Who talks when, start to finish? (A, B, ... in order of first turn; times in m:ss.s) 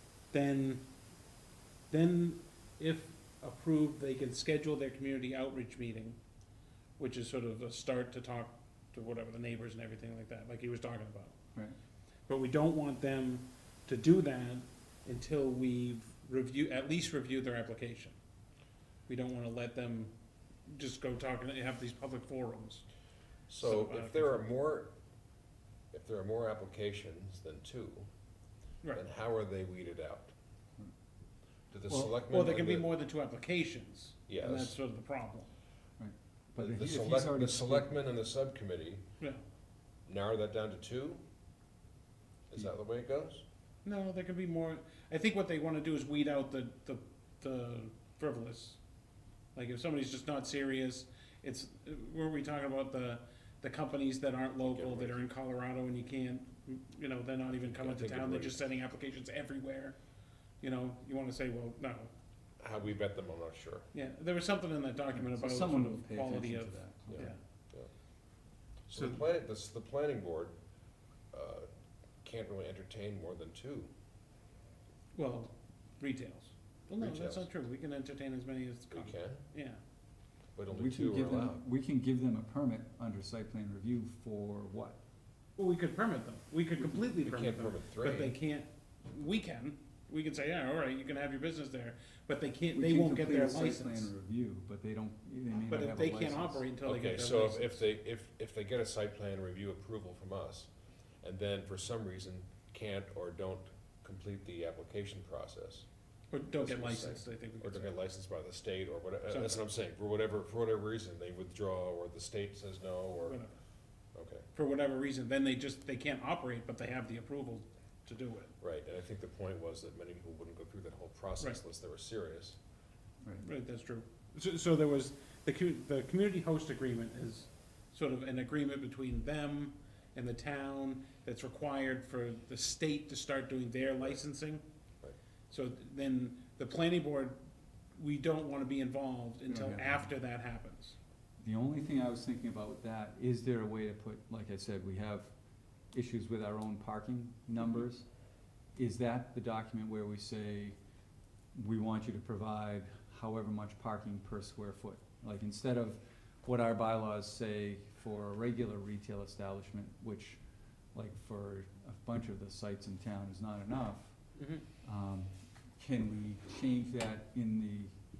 0:00.3-0:00.8 A
0:01.9-0:06.2 A
0:07.0-0:11.3 A
0:12.3-0:18.2 A
0:19.1-0:20.1 A
0:20.7-0:22.8 A
0:23.5-0:24.9 B
0:23.6-0:24.4 A
0:25.9-0:28.1 B
0:28.9-0:30.3 B
0:31.7-0:32.9 B
0:32.2-0:35.5 A
0:34.3-0:34.8 B
0:36.0-0:37.9 C
0:36.6-0:39.0 B
0:40.1-0:41.2 B
0:42.5-0:43.4 B
0:43.8-0:48.8 A
0:49.5-1:00.0 A
0:54.6-0:55.2 B
0:57.6-0:58.7 B
1:00.6-1:02.1 A
1:02.6-1:03.8 B
1:03.9-1:07.4 A
1:05.1-1:07.3 C
1:07.1-1:07.9 B
1:08.9-1:10.5 B
1:11.3-1:11.7 B
1:12.2-1:13.9 B
1:15.1-1:19.8 A
1:17.0-1:17.5 B
1:18.9-1:19.4 B
1:20.6-1:21.6 B
1:20.7-1:25.0 C
1:25.6-1:34.1 A
1:27.2-1:28.4 B
1:32.7-1:36.6 C
1:35.7-1:37.8 A
1:36.8-1:40.7 B
1:41.2-1:45.9 B
1:46.3-1:47.9 A
1:46.5-1:53.4 B
1:49.3-1:49.6 A
1:53.3-1:53.5 A
1:54.1-1:54.5 B
1:54.5-1:58.5 A
1:58.6-2:02.6 B
2:03.4-2:14.6 A
2:15.5-2:17.4 A
2:18.0-2:21.0 A
2:19.5-2:20.1 C
2:21.4-2:25.3 C
2:25.9-2:28.1 C
2:28.7-2:30.7 C
2:31.5-2:40.4 C
2:40.9-2:44.2 C
2:44.4-2:44.6 A
2:44.8-2:47.9 C